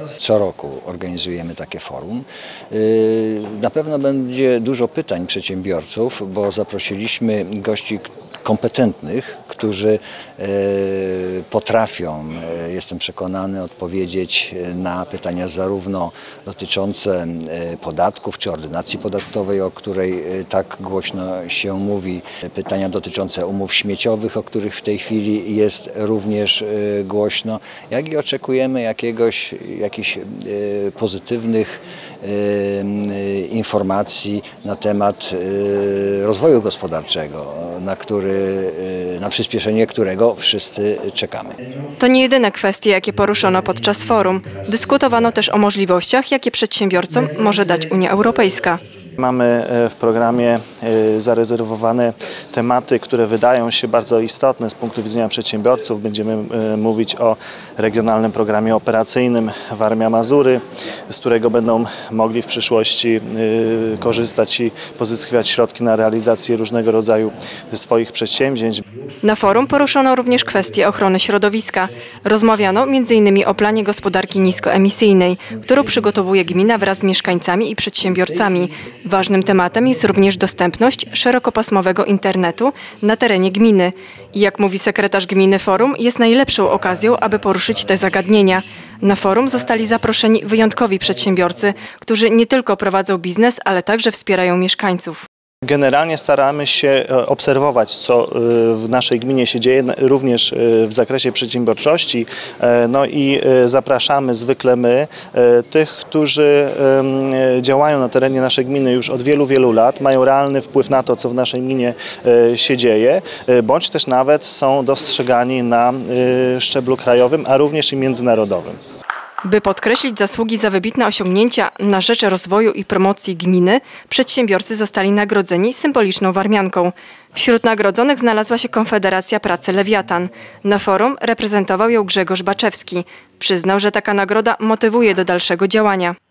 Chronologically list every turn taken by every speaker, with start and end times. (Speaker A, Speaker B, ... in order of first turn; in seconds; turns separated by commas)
Speaker A: 0.2-41.5, Speaker B: 42.0-48.8, Speaker C: 49.2-68.8, Speaker B: 69.2-95.2, Speaker C: 95.6-118.8, Speaker B: 119.4-136.1